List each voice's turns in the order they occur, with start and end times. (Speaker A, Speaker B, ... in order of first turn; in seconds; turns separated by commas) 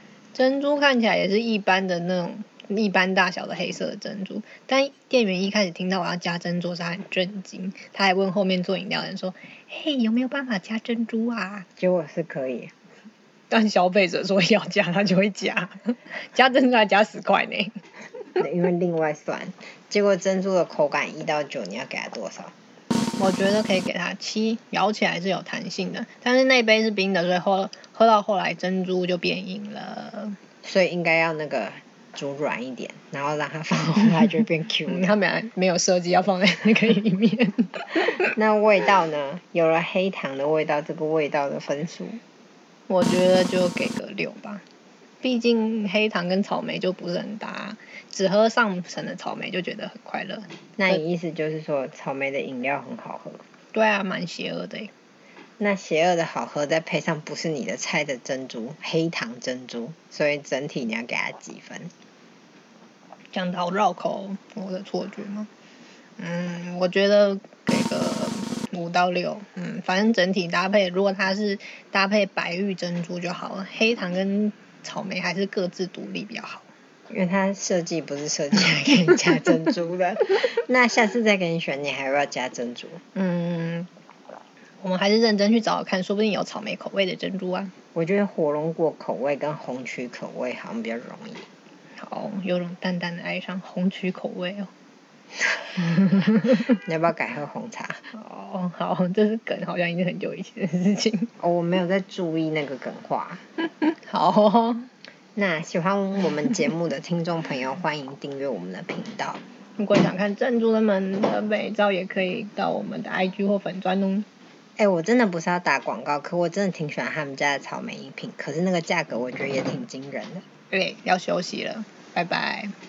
Speaker A: 0.3-11.7, Speaker B: 11.8-12.7, Speaker A: 13.5-17.8, Speaker B: 18.4-22.5, Speaker A: 23.2-30.4, Speaker B: 30.6-35.1, Speaker A: 34.9-38.3, Speaker B: 38.3-42.2, Speaker A: 42.9-44.6, Speaker A: 45.2-51.0, Speaker B: 50.8-53.4, Speaker A: 53.7-54.9, Speaker B: 55.6-61.9, Speaker A: 63.3-65.5, Speaker A: 66.2-76.6, Speaker B: 77.1-83.0, Speaker A: 83.2-83.9, Speaker A: 84.8-87.7, Speaker B: 87.9-91.5, Speaker A: 92.0-94.7, Speaker A: 96.2-96.5, Speaker B: 96.5-98.0, Speaker A: 98.1-101.3, Speaker B: 101.4-103.4, Speaker A: 103.8-104.9, Speaker B: 105.4-109.4, Speaker A: 109.8-114.3, Speaker B: 114.8-120.4, Speaker A: 120.7-122.7